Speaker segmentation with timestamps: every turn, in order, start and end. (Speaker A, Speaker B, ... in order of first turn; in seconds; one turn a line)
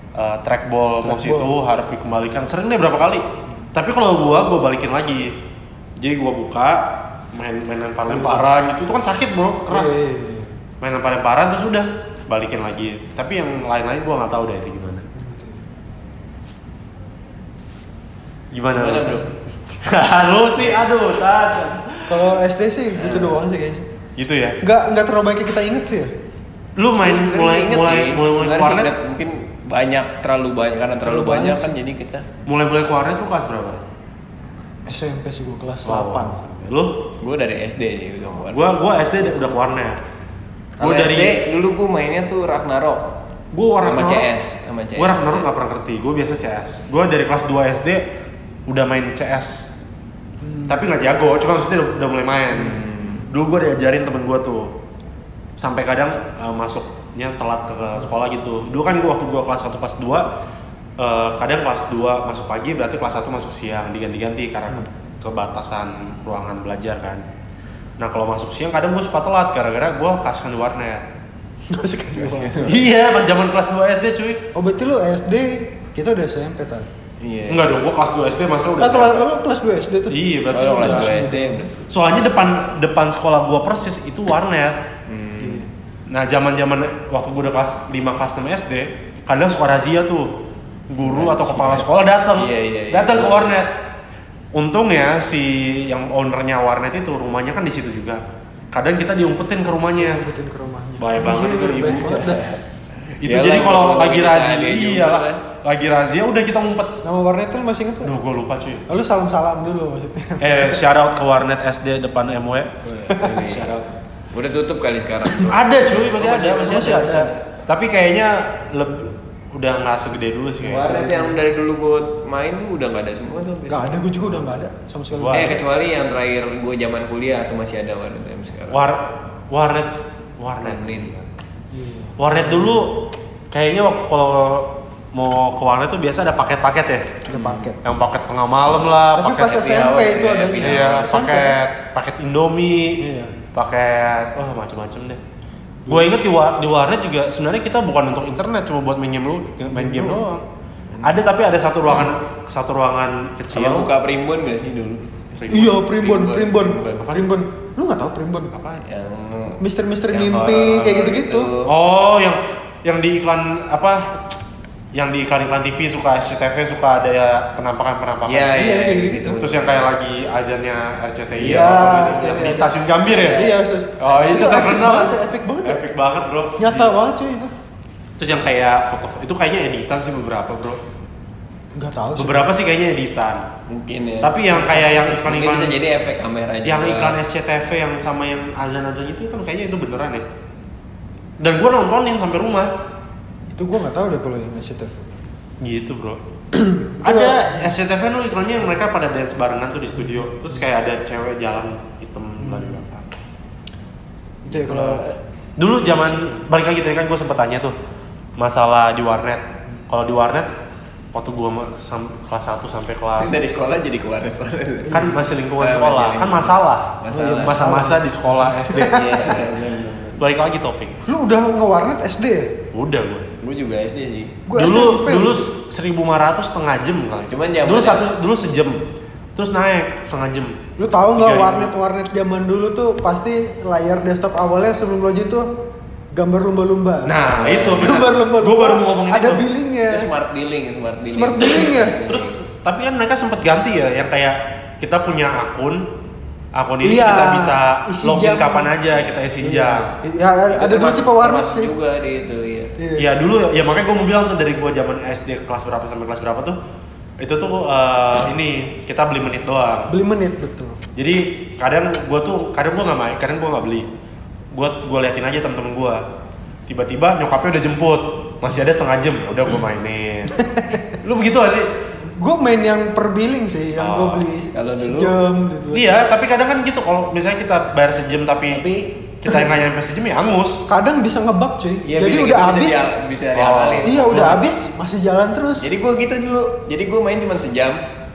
Speaker A: 0.1-5.3
Speaker B: 1.0-1.5
Speaker A: 6.0-10.0
Speaker B: 8.1-8.4
Speaker B: 9.7-10.6
Speaker A: 10.8-15.0
Speaker B: 15.1-15.6
Speaker A: 18.5-19.3
Speaker C: 18.8-19.3
Speaker A: 19.8-22.3
Speaker B: 22.1-23.9
Speaker C: 23.0-23.4
Speaker A: 24.1-24.6
Speaker B: 24.6-26.1
Speaker A: 26.8-28.9
Speaker C: 27.0-32.3
Speaker B: 31.0-31.7
Speaker A: 32.5-33.8
Speaker B: 34.9-36.4
Speaker A: 35.8-37.0
Speaker C: 37.2-38.6
Speaker A: 38.5-40.0
Speaker A: 40.8-41.4
Speaker C: 40.8-43.0
Speaker A: 43.5-44.3
Speaker C: 43.8-45.5
Speaker A: 45.0-48.0
Speaker A: 48.7-49.7
Speaker B: 50.4-50.8
Speaker A: 50.7-54.7
Speaker C: 52.6-53.3
Speaker A: 55.6-60.3
Speaker A: 61.0-67.2
Speaker A: 68.0-71.0
Speaker B: 71.7-72.7
Speaker C: 72.1-72.9
Speaker A: 72.7-74.4
Speaker B: 74.5-76.9
Speaker C: 77.2-77.7
Speaker A: 77.5-79.2
Speaker B: 78.8-80.2
Speaker A: 80.1-81.3
Speaker C: 80.5-81.9
Speaker B: 80.8-81.6
Speaker A: 81.9-84.8
Speaker C: 85.1-85.7
Speaker B: 85.4-85.7
Speaker A: 86.1-90.3
Speaker A: 90.9-93.7
Speaker C: 91.0-93.5
Speaker A: 94.5-100.2
Speaker B: 100.0-102.5
Speaker A: 101.0-102.5
Speaker C: 103.1-105.4
Speaker A: 103.2-107.0
Speaker B: 107.0-108.1
Speaker A: 108.0-108.8
Speaker B: 108.9-110.8
Speaker A: 110.4-113.9
Speaker C: 113.2-113.7
Speaker C: 114.3-116.6
Speaker A: 115.4-121.1
Speaker B: 116.2-117.3
Speaker B: 120.6-121.3
Speaker C: 120.7-124.5
Speaker B: 123.7-125.5
Speaker A: 125.1-125.6
Speaker C: 125.3-128.9
Speaker A: 128.7-131.2
Speaker C: 130.6-131.1
Speaker B: 131.7-132.8
Speaker A: 132.2-137.2
Speaker B: 137.3-137.8
Speaker C: 137.4-137.6
Speaker A: 137.8-139.4
Speaker B: 139.2-141.6
Speaker C: 139.3-141.1
Speaker A: 140.6-145.2
Speaker B: 143.0-143.3
Speaker A: 145.9-150.4
Speaker B: 149.7-150.2
Speaker C: 150.9-151.3
Speaker A: 151.0-153.9
Speaker C: 153.5-157.1
Speaker B: 155.5-158.5
Speaker A: 158.5-158.8
Speaker C: 158.8-161.7
Speaker B: 159.6-161.5
Speaker A: 161.7-164.3
Speaker A: 164.9-168.7
Speaker C: 168.2-169.9
Speaker B: 168.5-169.3
Speaker A: 169.2-173.5
Speaker C: 171.3-172.2
Speaker B: 171.4-175.8
Speaker C: 173.0-173.6
Speaker A: 174.0-176.9
Speaker C: 174.1-174.4
Speaker B: 176.6-177.5
Speaker A: 178.2-180.8
Speaker B: 181.8-182.5
Speaker A: 182.2-183.4
Speaker C: 183.7-187.2
Speaker A: 184.2-185.8
Speaker B: 184.5-185.1
Speaker A: 186.6-190.2
Speaker A: 191.4-192.7
Speaker B: 193.5-195.1
Speaker A: 195.6-196.2
Speaker B: 196.5-197.7
Speaker A: 197.0-203.1
Speaker B: 202.4-202.8
Speaker B: 204.4-205.2
Speaker A: 204.5-205.0
Speaker A: 205.6-207.8
Speaker A: 208.4-210.5
Speaker A: 211.1-213.5
Speaker C: 213.2-217.6
Speaker A: 214.9-219.5
Speaker B: 217.1-219.0
Speaker C: 218.9-220.2
Speaker A: 220.2-221.0
Speaker B: 221.1-222.6
Speaker A: 222.7-223.3
Speaker C: 223.4-224.4
Speaker B: 224.5-225.4
Speaker A: 224.5-228.8
Speaker C: 227.3-228.0
Speaker A: 229.3-231.7
Speaker B: 230.8-235.5
Speaker B: 236.1-237.2
Speaker A: 237.0-239.5
Speaker C: 237.3-238.1
Speaker B: 237.7-240.1
Speaker C: 239.9-242.4
Speaker B: 241.1-242.0
Speaker A: 242.0-245.9
Speaker A: 246.5-249.9
Speaker B: 246.8-248.7
Speaker C: 248.9-249.3
Speaker B: 249.4-251.7
Speaker C: 250.5-252.7
Speaker B: 252.8-253.1
Speaker A: 252.9-256.6
Speaker A: 257.2-259.9
Speaker B: 259.9-260.8
Speaker A: 260.9-263.9
Speaker A: 264.5-266.0
Speaker A: 266.7-270.4
Speaker B: 270.3-270.8
Speaker A: 270.9-271.7
Speaker B: 272.1-275.9
Speaker A: 273.8-274.2
Speaker C: 274.5-275.1
Speaker A: 275.7-278.6
Speaker C: 278.5-278.9
Speaker A: 279.2-280.6
Speaker B: 280.7-283.0
Speaker C: 281.8-284.3
Speaker A: 283.3-284.4
Speaker B: 283.5-285.7
Speaker C: 285.6-287.8